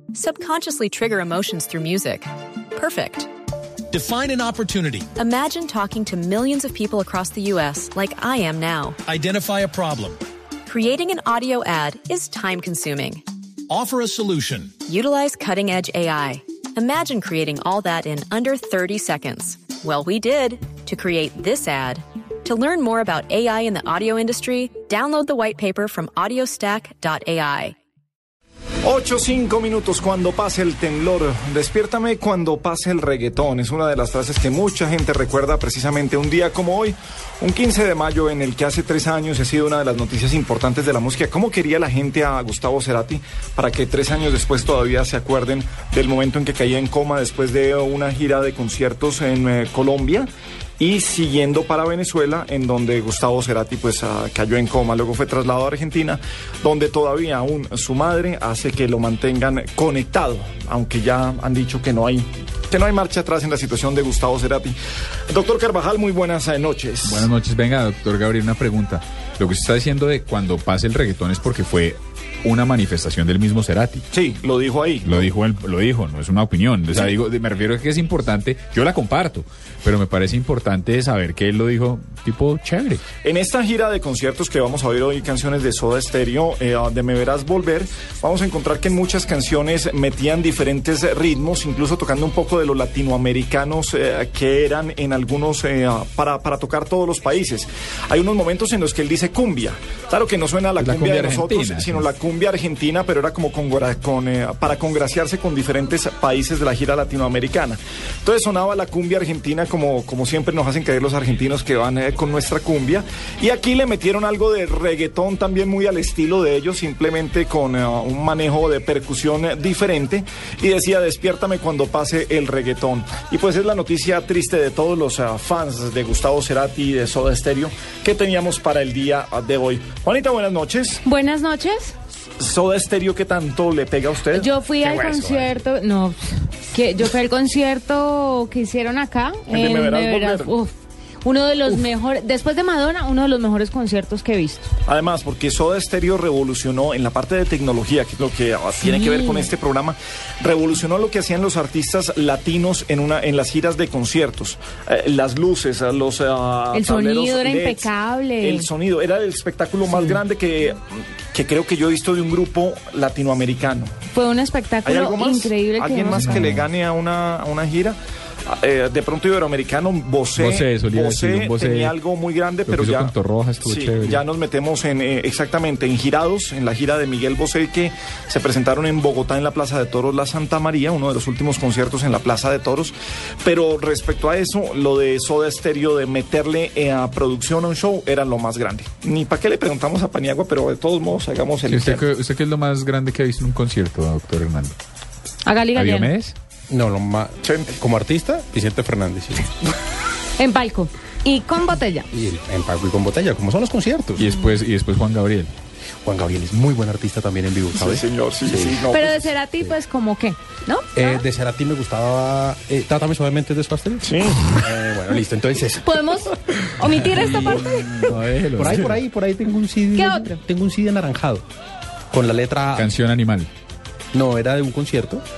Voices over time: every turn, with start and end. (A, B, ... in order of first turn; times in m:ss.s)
0:00.1-0:03.3 A
0:03.9-0:05.1 B
0:05.2-0:09.0 A
0:09.0-0:10.2 B
0:10.6-0:13.2 A
0:13.7-0:14.8 B
0:14.8-0:27.7 A
0:28.8-1:04.8 C
1:05.3-1:07.3 C
1:07.0-1:14.0 D
1:14.1-1:15.2 C
1:15.0-1:23.0 D
1:23.2-2:11.0 C
1:40.8-1:42.1 D
2:11.0-2:11.9 E
2:12.4-2:14.5 C
2:14.3-2:24.6 E
2:15.0-2:15.5 F
2:19.5-2:20.5 C
2:24.8-2:44.0 C
2:28.9-2:29.4 E
2:36.7-2:38.7 E
2:39.9-2:40.2 E
2:44.1-2:46.4 E
2:44.8-3:12.0 C
2:46.1-2:46.7 D
2:50.4-2:51.9 D
2:52.7-2:54.2 D
3:11.7-3:14.8 D
3:15.4-3:16.1 E
3:15.7-3:16.3 D
3:16.7-3:19.5 F
3:17.4-3:17.7 C
3:20.4-3:22.1 E
3:22.1-3:24.2 F
3:24.2-3:25.5 D
3:26.0-3:28.8 F
3:27.7-3:29.3 C
3:28.9-3:31.2 E
3:30.9-3:35.9 F
3:34.0-3:34.5 C
3:35.8-3:38.1 E
3:37.1-3:39.0 D
3:38.6-3:41.4 F
3:39.9-3:40.4 E
3:42.1-3:42.9 F
3:42.7-3:43.5 D
3:44.1-3:45.2 F